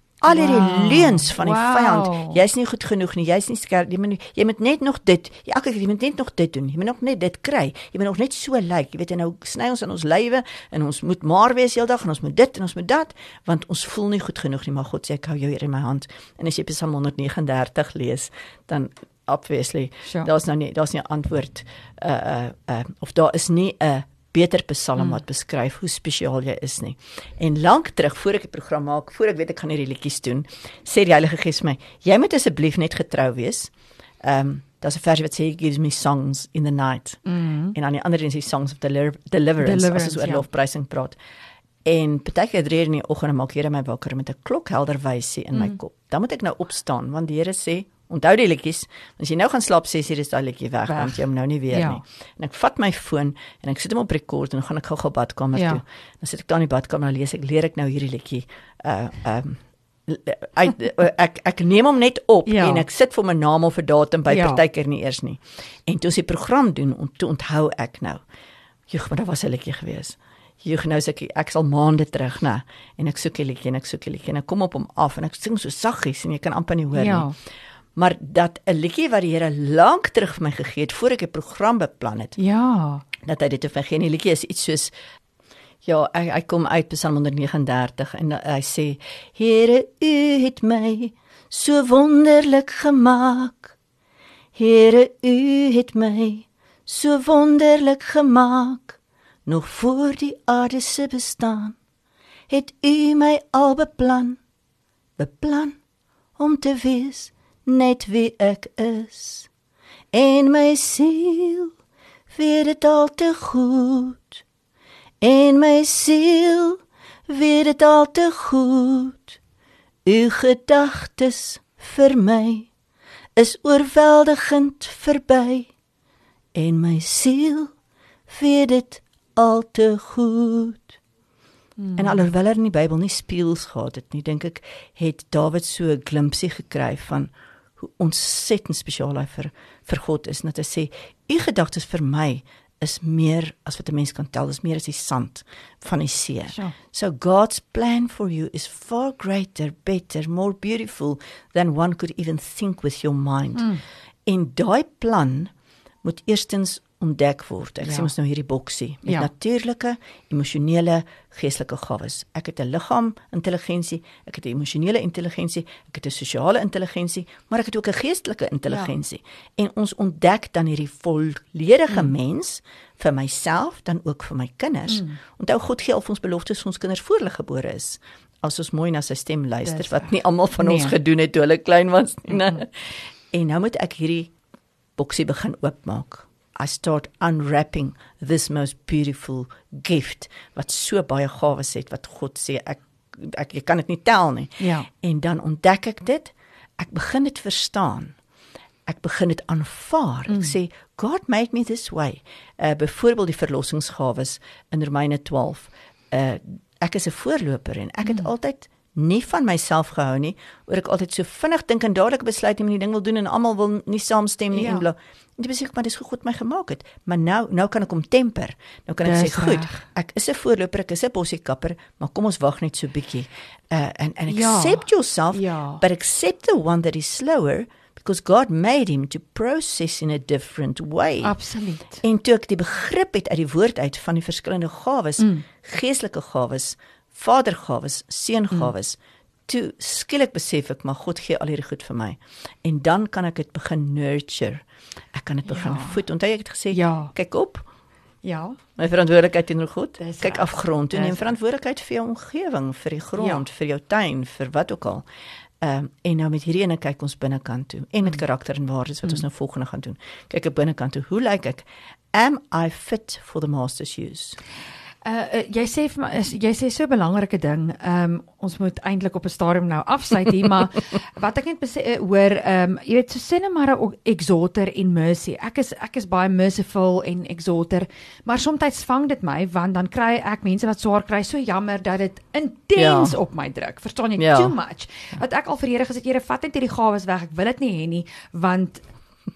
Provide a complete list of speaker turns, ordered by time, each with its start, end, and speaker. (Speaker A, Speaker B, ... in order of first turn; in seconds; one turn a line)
Speaker A: 0.2-37.2
Speaker B: 0.3-2.4
Speaker B: 37.3-37.8
Speaker A: 37.7-41.2
Speaker B: 39.6-40.5
Speaker A: 41.9-68.2
Speaker B: 50.9-52.0
Speaker B: 55.5-55.8
Speaker B: 62.5-62.9
Speaker B: 64.3-64.6
Speaker A: 68.9-77.3
Speaker B: 76.9-77.3
Speaker A: 78.0-82.4
Speaker B: 82.4-83.0
Speaker A: 83.2-84.9
Speaker A: 85.8-93.8
Speaker A: 94.5-101.8
Speaker A: 102.5-104.4
Speaker A: 105.2-105.8
Speaker A: 106.4-109.5
Speaker A: 110.1-111.7
Speaker A: 112.3-114.4
Speaker A: 115.2-119.4
Speaker A: 120.0-122.7
Speaker A: 123.4-125.7
Speaker A: 126.5-127.7
Speaker A: 128.3-131.0
Speaker B: 131.8-132.3
Speaker A: 132.0-153.7
Speaker B: 146.5-146.8
Speaker B: 153.6-153.8
Speaker A: 154.3-155.5
Speaker A: 156.0-184.3
Speaker B: 157.8-158.1
Speaker B: 174.9-175.2
Speaker B: 179.7-180.9
Speaker A: 185.0-198.2
Speaker B: 194.6-194.9
Speaker A: 198.9-231.3
Speaker B: 214.5-214.9
Speaker B: 219.0-219.8
Speaker B: 224.3-225.8
Speaker B: 231.2-232.0
Speaker A: 232.0-247.7
Speaker B: 235.2-235.4
Speaker B: 245.5-246.0
Speaker B: 246.7-247.1
Speaker B: 248.2-248.6
Speaker A: 248.8-255.1
Speaker B: 250.0-251.3
Speaker B: 253.2-253.4
Speaker A: 255.6-264.4
Speaker B: 265.0-288.8
Speaker A: 282.8-283.2
Speaker A: 284.2-284.6